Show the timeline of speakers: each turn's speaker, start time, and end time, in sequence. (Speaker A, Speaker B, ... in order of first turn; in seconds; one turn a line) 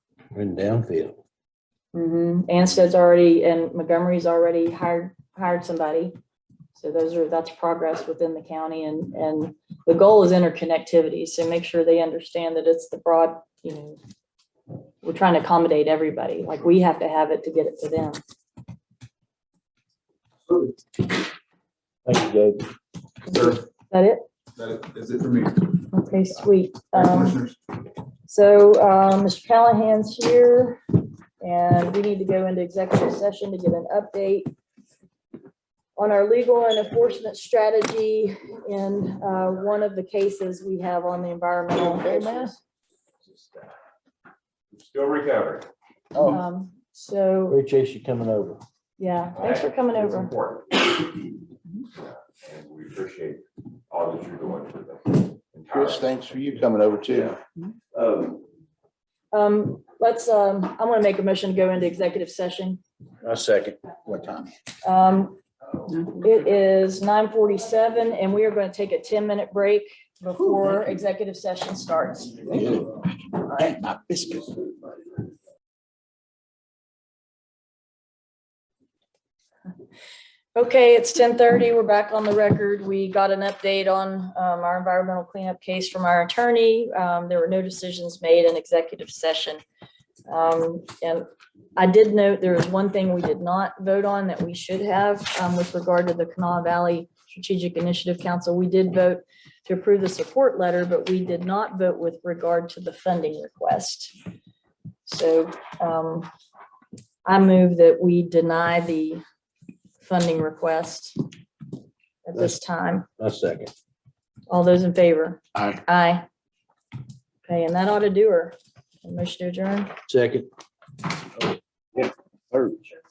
Speaker A: 0.3-1.2
Speaker B: 1.9-6.2
Speaker B: 6.8-14.0
Speaker B: 15.0-18.2
Speaker A: 22.1-22.6
Speaker B: 23.2-24.3
Speaker C: 23.3-23.6
Speaker C: 24.6-25.7
Speaker B: 25.9-27.4
Speaker C: 26.9-27.6
Speaker B: 28.3-30.8
Speaker B: 31.4-34.5
Speaker B: 36.0-42.6
Speaker D: 41.7-42.5
Speaker E: 43.2-43.7
Speaker E: 44.7-45.7
Speaker D: 46.1-46.4
Speaker B: 46.2-47.6
Speaker A: 47.5-48.6
Speaker B: 49.0-50.3
Speaker E: 49.4-51.3
Speaker E: 52.0-56.4
Speaker D: 55.7-57.4
Speaker E: 57.1-57.4
Speaker E: 57.9-58.4
Speaker B: 59.3-62.8
Speaker A: 63.2-63.8
Speaker D: 64.0-64.5
Speaker B: 64.8-65.4
Speaker B: 66.1-72.5
Speaker D: 72.5-74.7
Speaker B: 80.5-89.6
Speaker B: 90.3-104.1
Speaker B: 105.1-106.3
Speaker B: 107.2-109.2
Speaker B: 110.0-111.2
Speaker B: 112.2-113.1
Speaker A: 113.2-113.7
Speaker B: 114.5-116.2
Speaker B: 117.5-119.9
Speaker A: 120.1-120.5
Speaker D: 122.0-122.8